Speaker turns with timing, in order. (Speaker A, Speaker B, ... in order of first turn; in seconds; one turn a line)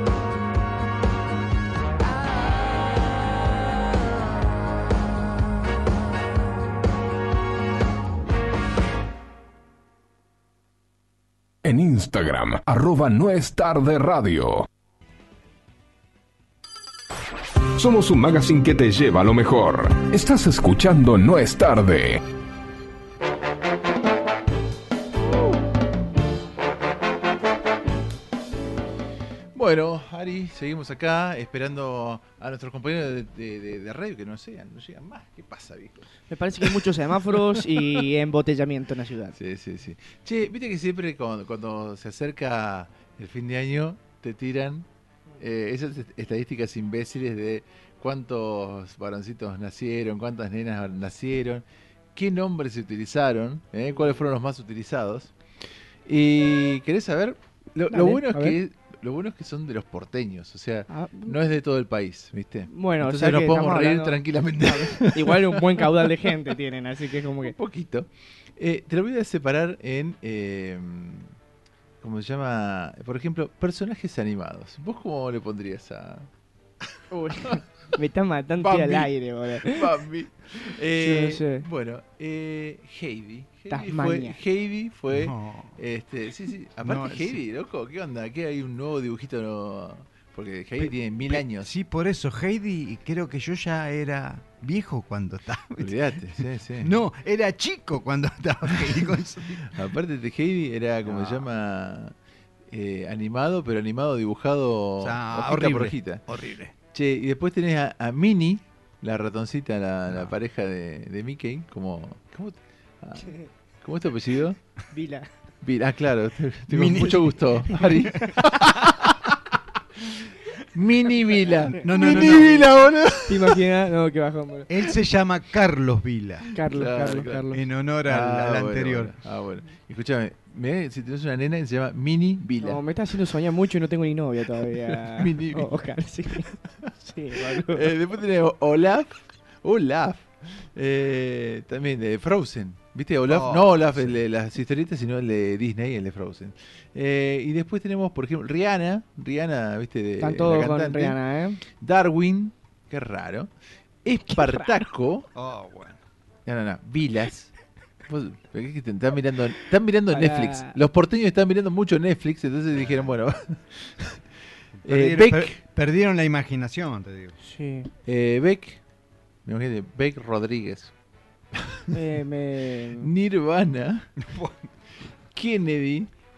Speaker A: 11.6-14.7
Speaker A: 17.8-22.2
Speaker B: 29.6-36.0
Speaker C: 36.3-39.4
Speaker B: 39.4-44.9
Speaker B: 45.4-51.6
Speaker B: 52.1-55.3
Speaker B: 56.1-65.8
Speaker C: 57.9-58.6
Speaker C: 60.9-61.4
Speaker C: 62.7-67.5
Speaker B: 67.5-71.3
Speaker B: 72.0-76.3
Speaker C: 77.1-79.8
Speaker B: 78.6-91.7
Speaker C: 80.9-81.7
Speaker C: 83.7-84.4
Speaker D: 85.1-85.8
Speaker D: 86.8-87.4
Speaker D: 90.8-96.0
Speaker B: 95.8-96.9
Speaker D: 96.8-99.7
Speaker B: 99.7-102.2
Speaker D: 101.0-101.5
Speaker B: 102.7-106.2
Speaker D: 105.0-106.7
Speaker B: 106.9-114.6
Speaker C: 114.9-115.3
Speaker B: 115.6-118.8
Speaker D: 116.7-118.3
Speaker B: 120.7-123.3
Speaker D: 121.7-123.1
Speaker C: 122.1-122.5
Speaker C: 123.3-124.7
Speaker D: 124.7-126.4
Speaker C: 126.5-127.6
Speaker B: 126.7-127.4
Speaker D: 127.5-129.1
Speaker B: 128.1-132.8
Speaker C: 132.6-136.5
Speaker B: 134.9-135.7
Speaker C: 137.0-137.9
Speaker B: 137.7-151.2
Speaker D: 143.3-144.1
Speaker C: 150.2-151.6
Speaker B: 151.7-153.5
Speaker B: 154.0-155.3
Speaker C: 154.3-154.8
Speaker D: 155.3-156.0
Speaker B: 156.5-157.5
Speaker B: 158.1-164.2
Speaker C: 160.1-160.8
Speaker D: 164.8-167.4
Speaker B: 164.9-165.6
Speaker C: 167.4-167.9
Speaker B: 168.1-168.8
Speaker B: 169.5-170.9
Speaker C: 171.9-173.1
Speaker B: 173.0-174.1
Speaker D: 174.2-174.7
Speaker B: 175.3-176.1